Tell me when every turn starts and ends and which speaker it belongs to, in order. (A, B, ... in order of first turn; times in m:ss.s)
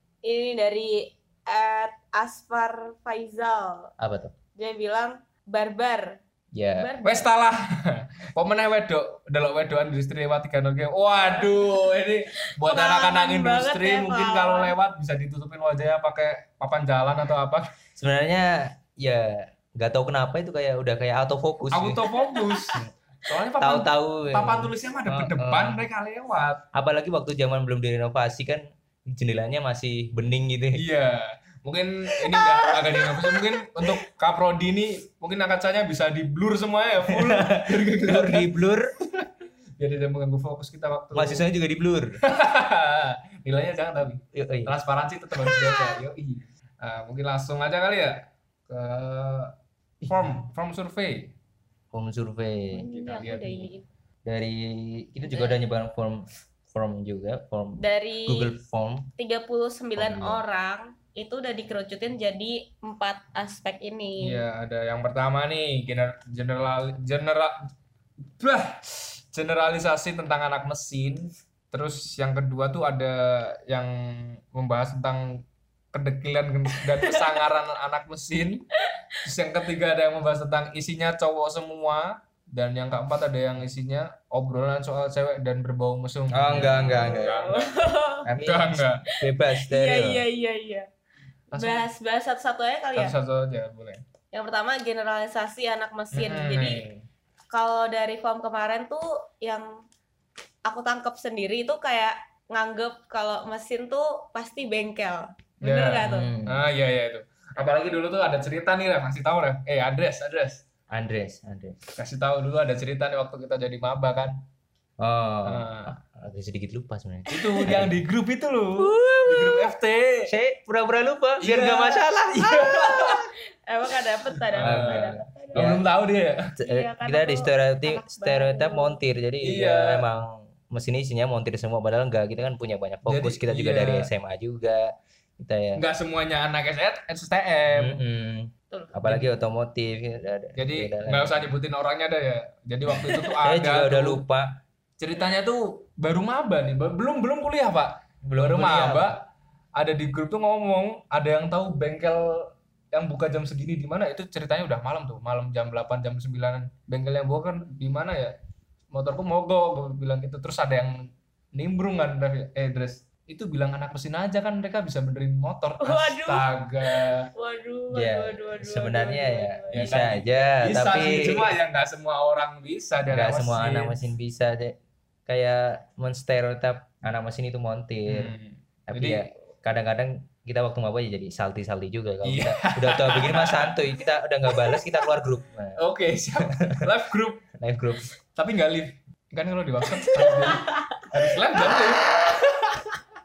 0:00.2-0:03.9 A
0:04.0-0:04.3 B
0:04.6-0:06.2 A
0:06.5-0:06.9 B
0:06.8-0:07.3 A
0:07.0-0:17.7 C
0:11.2-0:14.7 A
0:18.0-0:22.0 B
0:21.7-0:26.6 C
0:22.2-0:22.7 A
0:23.6-0:25.9 B
0:26.7-0:30.8 B
0:30.7-0:38.6 C
0:37.1-0:39.0 B
0:39.2-0:41.4 C
0:41.1-0:42.2 B
0:42.2-0:49.5 C
0:44.3-0:44.7 B
0:45.5-0:46.0 A
0:50.0-0:50.4 B
0:50.1-0:51.3 C
0:51.9-0:52.9 B
0:52.7-0:53.8 A
0:52.9-0:53.7 C
0:54.2-0:59.1 B
0:55.3-0:55.6 A
0:57.8-0:58.5 A
0:59.2-1:04.4 A
1:00.0-1:00.4 B
1:04.2-1:07.7 C
1:08.4-1:18.7 C
1:17.0-1:17.4 A
1:18.8-1:19.2 A
1:19.2-1:27.7 C
1:26.3-1:27.6 B
1:26.8-1:28.3 A
1:28.2-1:30.2 B
1:28.4-1:29.0 C
1:29.1-1:30.9 A
1:31.5-1:31.9 C
1:31.5-1:33.2 A
1:33.0-1:34.0 C
1:34.3-1:36.8 A
1:36.1-1:37.0 C
1:37.5-1:39.8 A
1:40.6-1:46.3 A
1:45.6-1:50.6 C
1:46.0-1:46.6 B
1:50.9-1:51.8 B
1:51.9-1:54.4 C
1:55.0-1:58.0 B
1:55.4-1:55.9 C
1:57.3-2:00.3 C
1:58.8-1:59.7 B
2:00.3-2:02.6 B
2:01.4-2:03.2 C
2:02.4-2:05.7 A
2:04.4-2:06.5 C
2:04.6-2:05.8 B
2:06.6-2:15.8 B
2:06.6-2:09.0 A
2:09.4-2:10.1 C
2:13.1-2:14.1 C
2:15.8-2:18.0 C
2:17.7-2:21.5 B
2:18.7-2:19.0 A
2:19.0-2:19.3 C
2:20.6-2:24.2 C
2:23.4-2:24.5 B
2:25.0-2:29.2 C
2:28.3-2:29.2 B
2:29.8-2:38.3 C
2:38.9-2:47.3 C
2:45.8-2:50.1 A
2:47.9-2:51.5 B
2:49.7-2:54.0 C
2:53.1-2:54.8 B
2:55.3-2:58.3 B
2:58.1-2:59.3 C
2:58.9-3:05.8 B
3:02.2-3:03.9 C
3:05.8-3:07.5 C
3:06.4-3:06.9 B
3:07.5-3:08.1 B
3:08.4-3:13.0 C